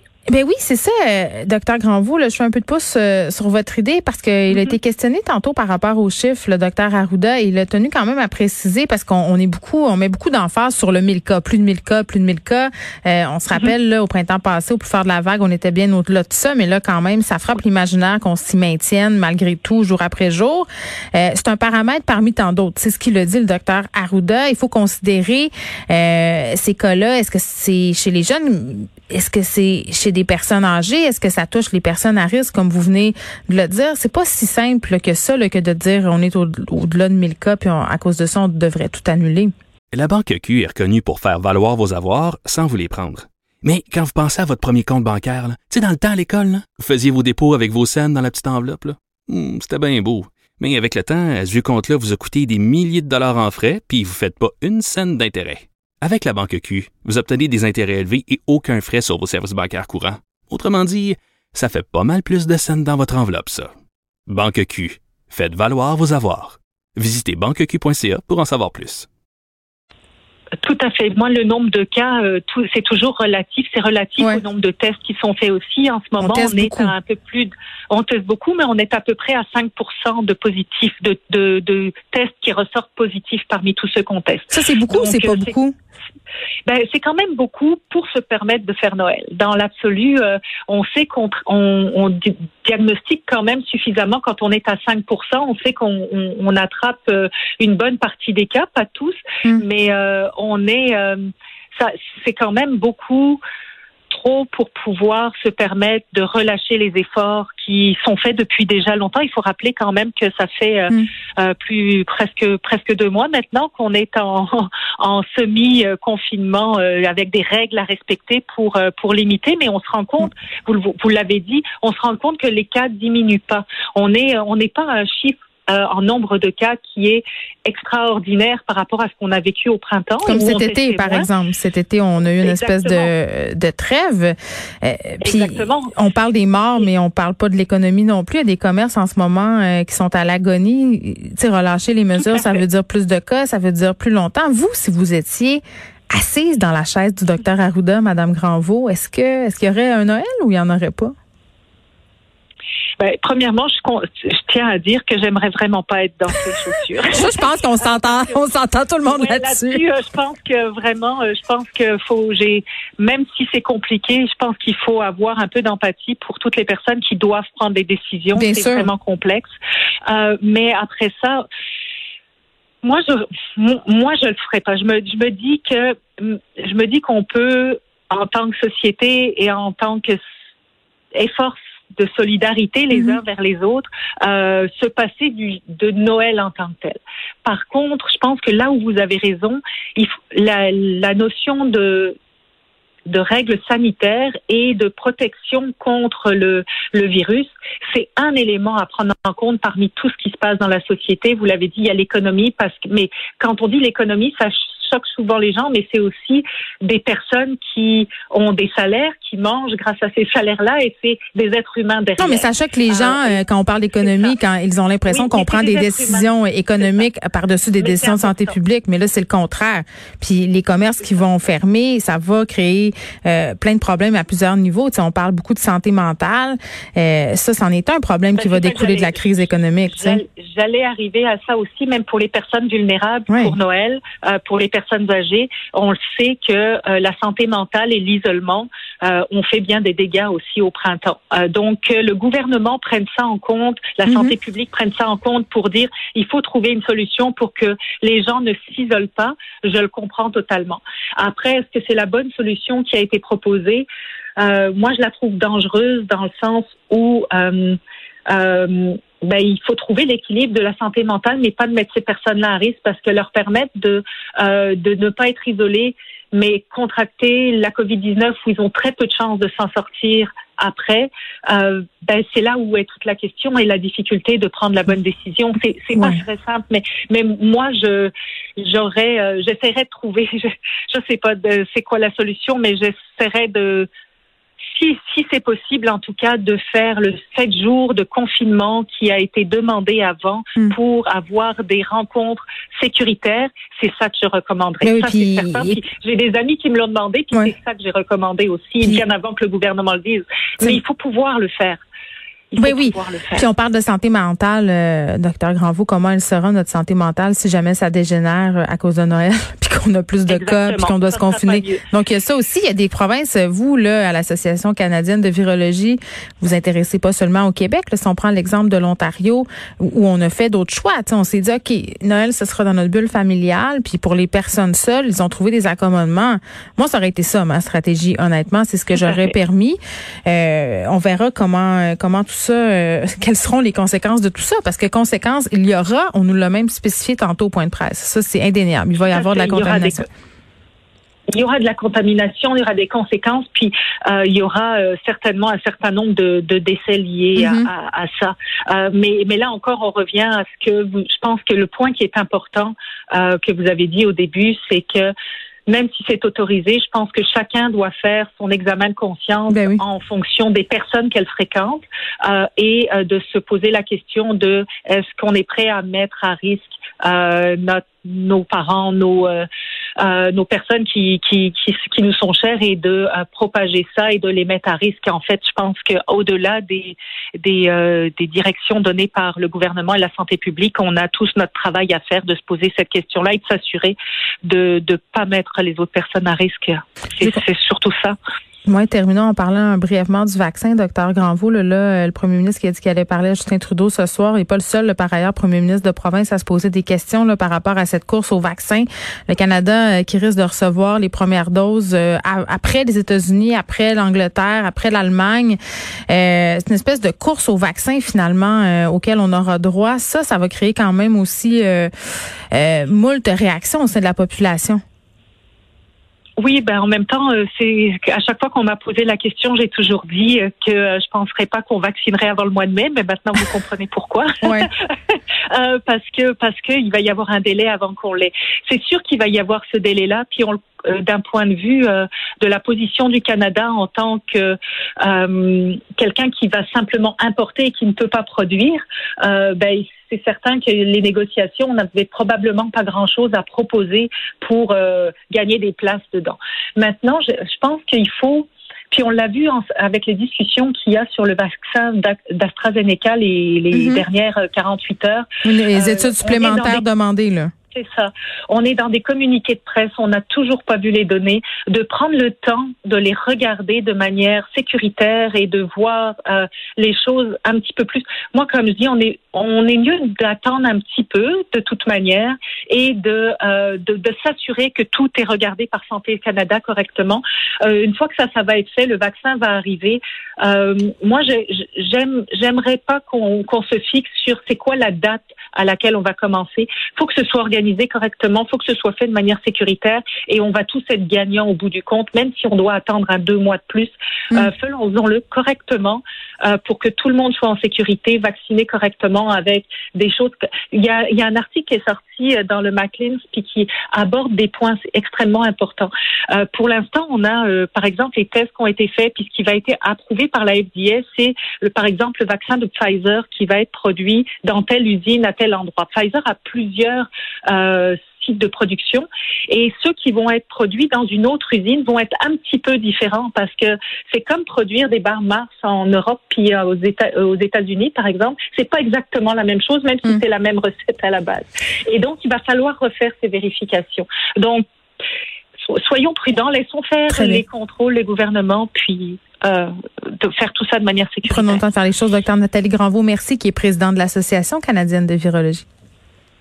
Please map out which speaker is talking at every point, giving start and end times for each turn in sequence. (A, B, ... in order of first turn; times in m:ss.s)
0:00.3-0:39.5 A
0:39.9-1:03.7 B
1:04.3-1:09.1 B
1:10.6-1:25.5 C
1:16.2-1:16.9 A
1:24.5-1:25.7 A
1:26.6-1:43.4 C
1:44.1-2:11.3 C
2:10.2-2:31.1 A
2:12.4-2:13.1 C
2:15.2-2:15.9 C
2:22.2-2:22.6 C
2:33.0-2:38.4 C
2:37.1-2:39.8 A
2:39.0-2:49.5 C
2:48.3-2:48.9 A
2:50.0-2:51.4 C
2:52.8-3:00.2 C
3:01.1-3:12.2 C
3:13.0-3:33.4 C
3:32.2-3:50.2 A
3:34.0-3:34.3 C
3:35.1-3:36.3 C
3:37.8-3:38.5 C
3:48.4-4:43.9 C
3:53.3-3:53.5 A
4:04.0-4:04.3 A
4:44.7-5:01.8 C
4:54.8-4:55.8 A
5:02.5-5:03.4 C
5:02.6-5:40.0 A
5:10.3-5:11.8 C
5:28.9-5:29.3 C
5:39.1-5:40.0 C
5:41.3-5:55.1 C
5:47.4-5:47.7 A
5:55.7-6:09.5 C
5:59.5-5:59.8 A
6:10.0-6:28.2 C
6:28.6-6:45.6 A
6:46.1-6:51.9 A
6:52.5-6:54.8 A
6:56.4-7:36.8 C
7:04.4-7:04.7 A
7:33.7-7:34.0 A
7:35.4-7:37.5 A
7:37.7-8:54.6 C
8:55.7-9:01.6 C
8:57.1-8:57.4 A
9:01.3-9:05.6 A